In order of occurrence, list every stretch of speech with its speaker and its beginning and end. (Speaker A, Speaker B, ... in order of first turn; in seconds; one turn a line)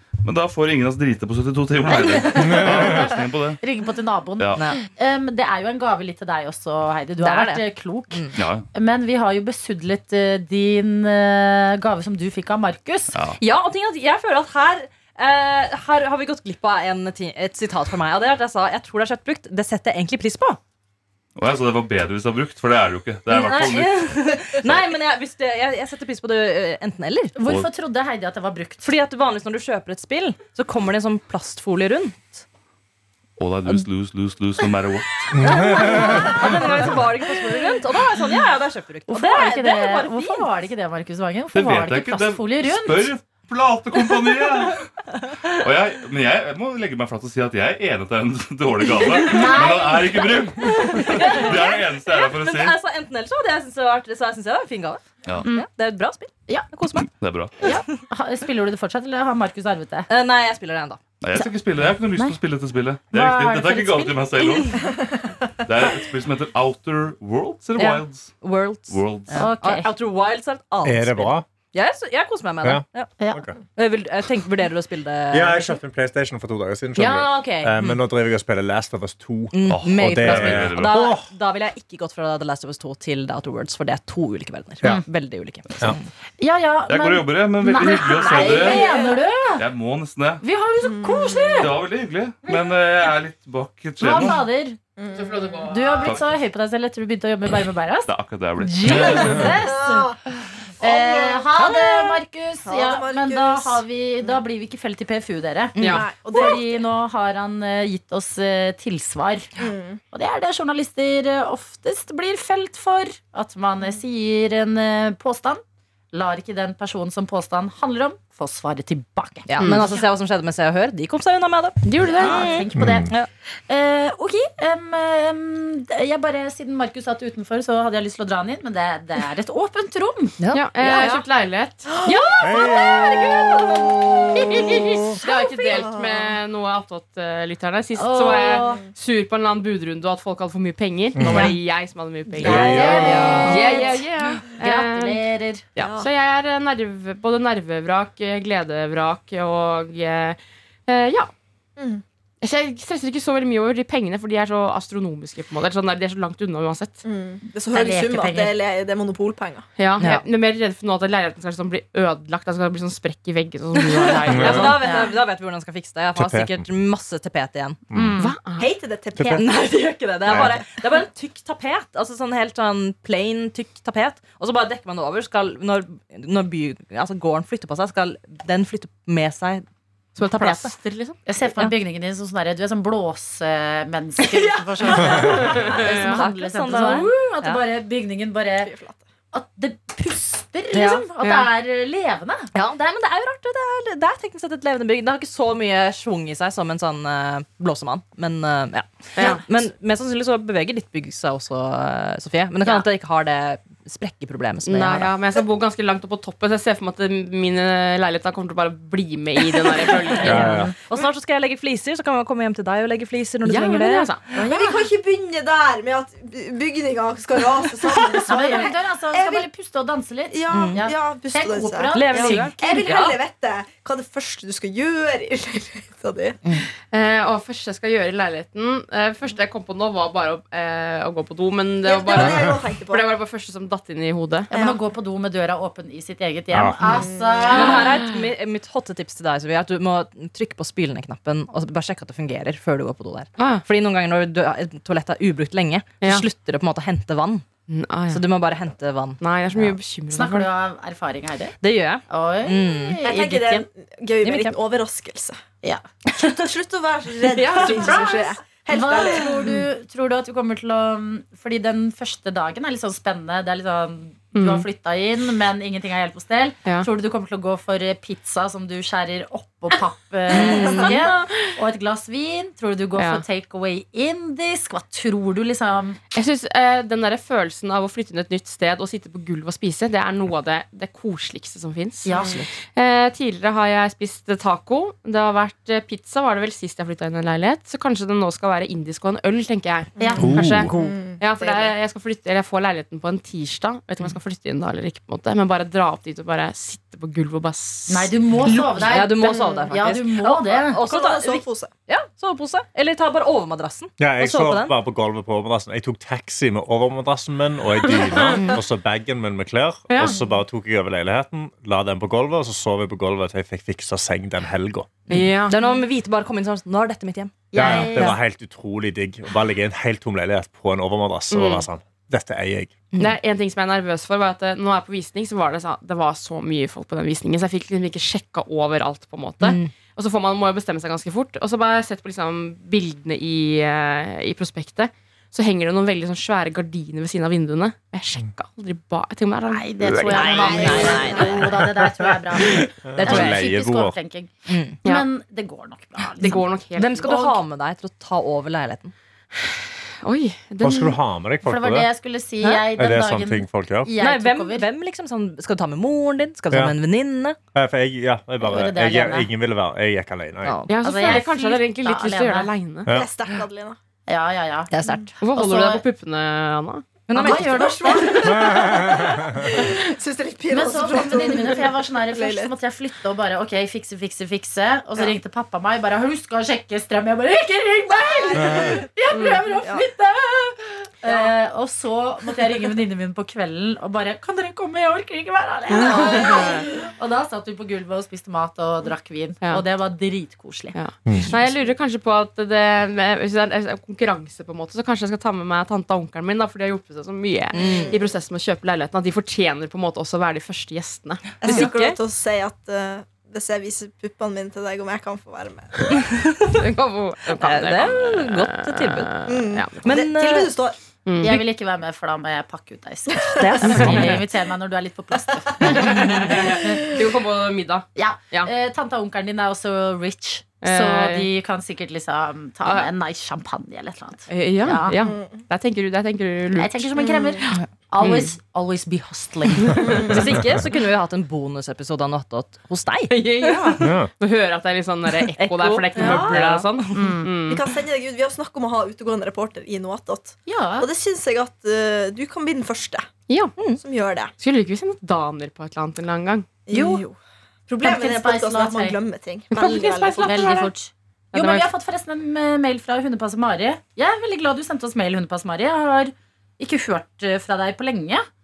Speaker A: 0.2-3.6
Speaker B: 1.9-13.2
Speaker C: 4.6-4.8
Speaker C: 7.2-8.4
Speaker A: 8.3-8.7
Speaker A: 13.1-13.4
Speaker C: 13.4-20.6
Speaker A: 21.4-24.8
Speaker C: 23.3-27.7
Speaker B: 27.4-28.9
Speaker C: 28.8-32.4
Speaker A: 33.4-35.3
Speaker D: 35.4-36.1
Speaker C: 35.4-40.6
Speaker B: 39.1-43.1
Speaker A: 41.5-44.8
Speaker A: 45.5-52.8
Speaker B: 49.2-50.7
Speaker C: 50.6-57.1
Speaker B: 55.4-55.7
Speaker A: 57.0-57.6
Speaker C: 57.6-58.0
Speaker B: 57.6-60.1
Speaker C: 60.1-61.0
Speaker A: 61.2-69.5
Speaker B: 63.1-64.5
Speaker C: 67.8-73.2
Speaker B: 69.3-69.9
Speaker D: 70.8-71.5
Speaker D: 72.6-73.6
Speaker C: 73.8-75.8
Speaker D: 75.3-81.3
Speaker C: 77.0-78.0
Speaker C: 79.5-86.1
Speaker A: 79.7-81.0
Speaker B: 86.4-89.7
Speaker A: 86.9-88.9
Speaker E: 88.2-89.2
Speaker A: 89.5-90.4
Speaker B: 90.4-91.8
Speaker E: 90.8-91.7
Speaker A: 91.6-94.4
Speaker B: 94.0-94.8
Speaker E: 95.0-95.7
Speaker F: 95.1-96.1
Speaker B: 95.7-100.1
Speaker A: 96.0-96.4
Speaker A: 98.0-99.5
Speaker D: 99.0-99.3
Speaker E: 99.5-100.2
Speaker E: 100.8-104.4
Speaker B: 100.8-109.5
Speaker C: 101.6-102.0
Speaker F: 105.8-106.0
Speaker E: 105.8-106.8
Speaker E: 109.6-110.0
Speaker B: 110.1-115.6
Speaker B: 116.1-120.1
Speaker C: 119.5-123.3
Speaker F: 119.6-119.9
Speaker F: 121.9-122.4
Speaker B: 122.0-131.2
Speaker D: 122.8-123.0
Speaker C: 130.4-131.2
Speaker F: 130.5-132.0
Speaker C: 132.1-134.0
Speaker D: 132.4-135.1
Speaker B: 134.3-135.9
Speaker F: 135.2-145.2
Speaker E: 135.7-136.3
Speaker B: 137.9-138.8
Speaker D: 141.2-141.6
Speaker D: 142.4-143.3
Speaker B: 142.4-143.9
Speaker C: 142.5-143.7
Speaker E: 143.5-143.9
Speaker B: 144.6-145.7
Speaker F: 145.8-151.3
Speaker E: 145.8-146.1
Speaker E: 151.8-152.0
Speaker F: 152.4-157.0
Speaker E: 157.0-159.7
Speaker B: 157.7-158.6
Speaker F: 159.8-164.9
Speaker C: 160.0-160.2
Speaker C: 163.8-167.8
Speaker D: 164.3-164.8
Speaker B: 164.6-165.2
Speaker D: 166.2-166.7
Speaker D: 167.9-168.2
Speaker B: 167.9-168.4
Speaker F: 168.2-168.7
Speaker E: 168.6-169.5
Speaker D: 169.2-169.5
Speaker C: 169.3-179.6
Speaker D: 170.2-170.6
Speaker F: 180.2-181.2
Speaker C: 180.2-180.7
Speaker B: 181.3-188.7
Speaker C: 181.5-181.8
Speaker C: 184.2-187.6
Speaker F: 185.3-187.2
Speaker E: 188.6-189.0
Speaker B: 189.3-192.5
Speaker F: 190.8-191.4
Speaker C: 190.8-191.1
Speaker C: 192.5-205.2
Speaker F: 199.2-199.4
Speaker F: 204.7-210.6
Speaker D: 210.2-210.7
Speaker C: 210.3-214.4
Speaker B: 210.4-210.7
Speaker F: 213.4-214.4
Speaker E: 214.4-219.5
Speaker B: 218.3-222.8
Speaker E: 220.3-226.4
Speaker C: 220.5-220.9
Speaker C: 221.9-223.2
Speaker F: 226.9-234.5
Speaker E: 231.8-233.1
Speaker E: 234.5-234.8
Speaker B: 234.5-237.9
Speaker D: 236.5-237.1
Speaker E: 237.0-237.7
Speaker C: 237.5-247.4
Speaker F: 243.4-243.7
Speaker F: 246.0-246.3
Speaker F: 247.7-248.2
Speaker C: 248.1-249.8
Speaker F: 249.2-250.5
Speaker B: 250.1-251.6
Speaker C: 251.6-253.1
Speaker B: 252.1-253.7
Speaker E: 253.0-255.4
Speaker C: 254.2-254.6
Speaker C: 256.2-256.5
Speaker E: 256.4-259.5
Speaker F: 257.4-258.2
Speaker B: 257.6-276.0
Speaker F: 264.3-264.7
Speaker C: 270.4-270.9
Speaker F: 270.6-271.5
Speaker F: 273.0-273.2
Speaker F: 276.1-298.9
Speaker B: 282.1-282.5
Speaker B: 290.0-290.4
Speaker E: 290.0-291.8
Speaker D: 290.2-290.7
Speaker C: 290.6-290.9
Speaker B: 297.9-300.8
Speaker C: 298.5-304.8
Speaker E: 299.3-299.7
Speaker E: 300.8-301.7
Speaker D: 304.0-314.9
Speaker F: 307.8-308.4
Speaker F: 309.9-310.2
Speaker C: 315.1-318.1
Speaker F: 315.1-315.6
Speaker B: 317.5-318.2
Speaker D: 317.6-322.7
Speaker F: 321.3-321.7
Speaker F: 323.0-341.5
Speaker C: 329.4-329.7
Speaker B: 339.5-344.3
Speaker D: 339.8-340.6
Speaker C: 340.1-341.2
Speaker E: 340.4-341.4
Speaker D: 341.4-344.0
Speaker C: 342.9-343.5
Speaker C: 344.5-344.8
Speaker B: 344.8-346.4
Speaker F: 346.2-347.1
Speaker C: 346.3-348.9
Speaker B: 347.0-347.4
Speaker F: 350.0-351.0
Speaker D: 350.6-351.9
Speaker B: 351.4-354.7
Speaker C: 352.4-352.7
Speaker D: 352.8-353.9
Speaker C: 353.9-357.4
Speaker D: 356.5-356.8
Speaker D: 357.5-360.6
Speaker B: 358.4-359.3
Speaker C: 360.4-360.8
Speaker F: 360.7-362.9
Speaker B: 360.8-362.5
Speaker E: 362.9-363.8
Speaker B: 364.1-365.8
Speaker C: 364.7-365.1
Speaker F: 365.2-366.9
Speaker C: 367.1-368.0
Speaker B: 367.1-368.3
Speaker E: 367.2-372.5
Speaker D: 368.2-369.5
Speaker B: 370.5-390.8
Speaker E: 377.9-378.6
Speaker D: 378.4-378.8
Speaker F: 379.1-379.4
Speaker E: 381.1-381.3
Speaker F: 385.7-386.6
Speaker F: 390.7-401.7
Speaker D: 391.1-391.4
Speaker C: 397.5-397.9
Speaker E: 397.6-398.0
Speaker E: 401.4-405.9
Speaker C: 401.4-402.0
Speaker C: 405.9-406.6
Speaker F: 406.6-409.9
Speaker C: 407.3-410.6
Speaker E: 409.2-410.8
Speaker F: 411.1-411.4
Speaker B: 411.2-416.8
Speaker C: 413.4-414.3
Speaker F: 413.6-414.2
Speaker E: 415.6-416.3
Speaker F: 415.7-418.5
Speaker B: 418.0-425.0
Speaker F: 420.6-421.3
Speaker F: 424.3-428.3
Speaker E: 425.0-425.4
Speaker B: 426.6-430.0
Speaker E: 427.0-427.4
Speaker F: 429.6-430.2
Speaker E: 429.8-430.1
Speaker C: 430.1-433.2
Speaker F: 433.1-437.6
Speaker D: 433.8-434.1
Speaker C: 435.1-437.1
Speaker E: 436.0-436.4
Speaker B: 436.9-437.3
Speaker E: 437.5-443.1
Speaker B: 440.5-440.9
Speaker F: 443.3-443.5
Speaker C: 443.6-443.8
Speaker E: 443.7-444.3
Speaker F: 444.4-446.5
Speaker E: 446.7-450.5
Speaker B: 446.7-447.0
Speaker B: 447.8-449.0
Speaker F: 449.5-450.7
Speaker B: 450.2-458.3
Speaker F: 451.3-451.7